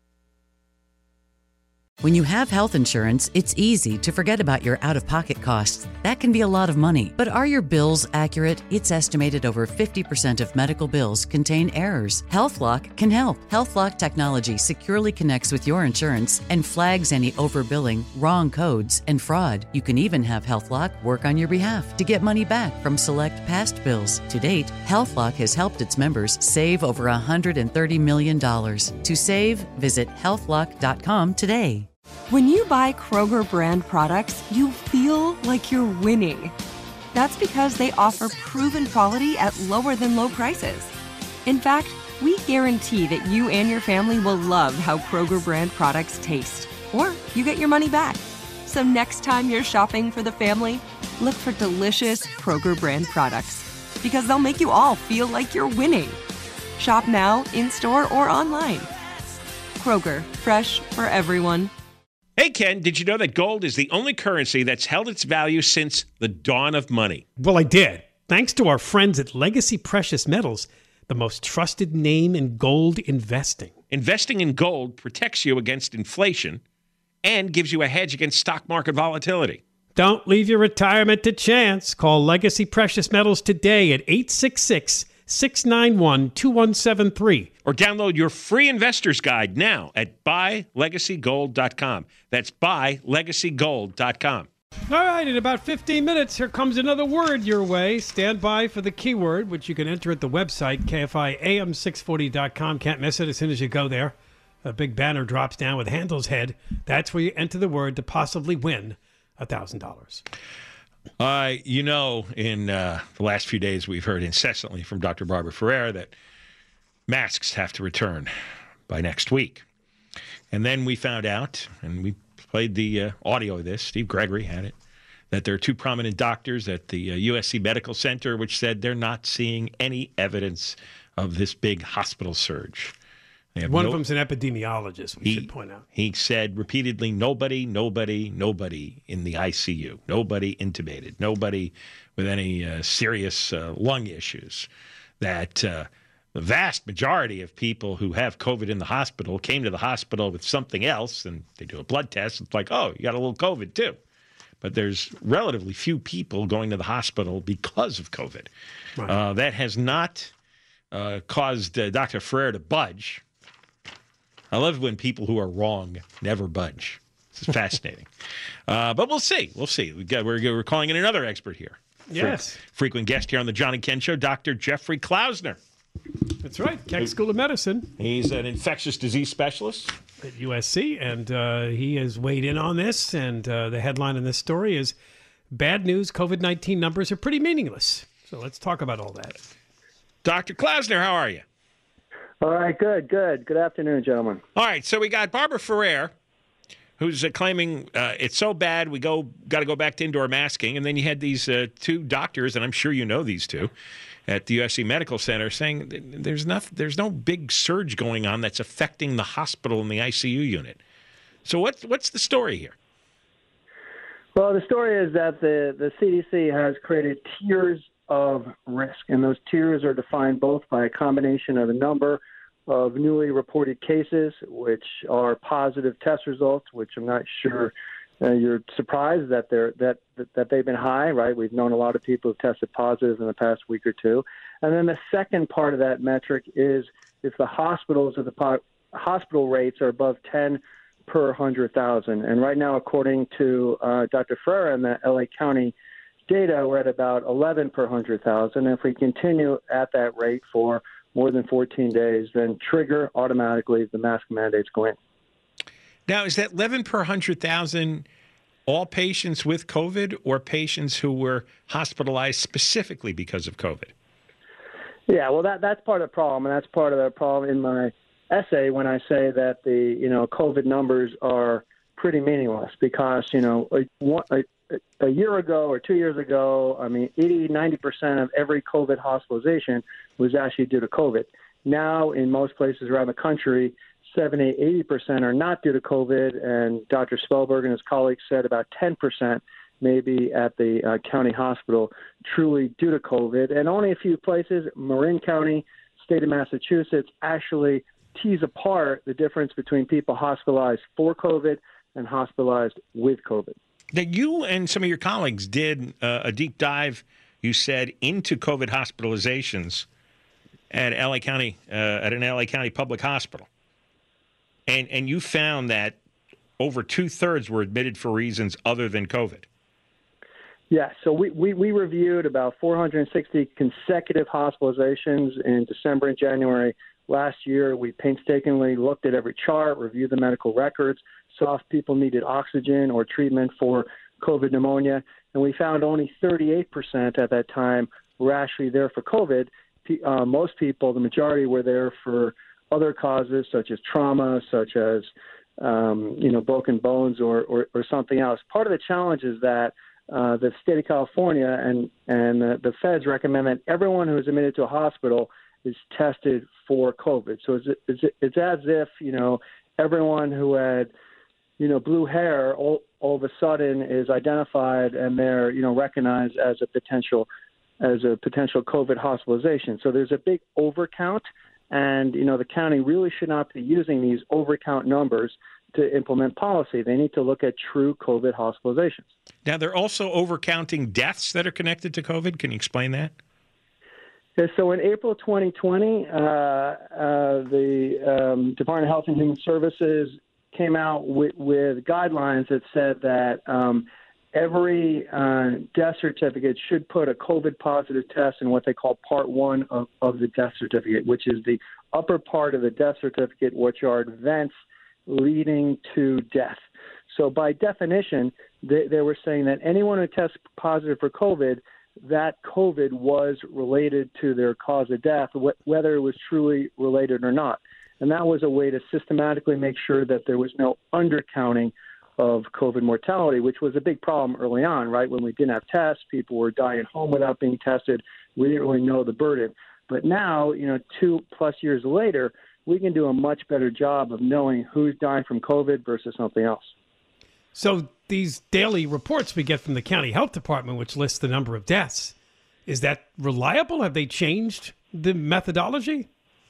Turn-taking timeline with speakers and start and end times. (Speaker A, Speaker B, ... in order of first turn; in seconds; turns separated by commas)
Speaker A: 2.0-31.9, Speaker B: 32.3-36.5, Speaker B: 37.1-40.9, Speaker B: 41.5-56.2, Speaker B: 56.8-58.9, Speaker B: 59.8-61.7, Speaker C: 62.4-67.2, Speaker D: 67.4-73.7, Speaker C: 73.9-76.6, Speaker C: 77.2-79.6, Speaker D: 80.0-87.5, Speaker C: 87.7-94.5, Speaker D: 94.9-110.2, Speaker C: 111.2-116.1, Speaker C: 117.1-118.3, Speaker C: 118.9-119.6, Speaker C: 120.5-124.8, Speaker C: 125.3-132.9, Speaker C: 133.6-134.0, Speaker D: 133.7-135.8, Speaker C: 135.2-144.7, Speaker C: 145.2-154.0, Speaker C: 154.6-158.5, Speaker C: 159.1-160.3, Speaker C: 160.9-163.2, Speaker C: 164.5-168.1, Speaker C: 168.7-175.6, Speaker D: 172.1-172.6, Speaker D: 176.4-177.9, Speaker C: 178.0-179.9, Speaker D: 180.2-184.9, Speaker D: 185.5-189.4, Speaker C: 190.2-191.4, Speaker E: 192.4-194.4, Speaker C: 194.6-196.1, Speaker C: 197.0-203.7, Speaker C: 204.3-210.8, Speaker C: 211.4-212.8, Speaker E: 214.3-245.7, Speaker E: 246.3-255.0, Speaker C: 256.1-258.1, Speaker C: 258.7-263.9, Speaker E: 265.1-303.6, Speaker C: 303.9-309.9, Speaker C: 310.7-313.5, Speaker C: 314.7-316.0, Speaker C: 316.6-319.5, Speaker E: 320.7-360.9, Speaker E: 361.6-367.3, Speaker E: 367.8-379.1, Speaker C: 379.4-383.1, Speaker E: 384.4-404.5, Speaker E: 405.1-436.7, Speaker D: 437.6-442.1, Speaker D: 442.7-446.1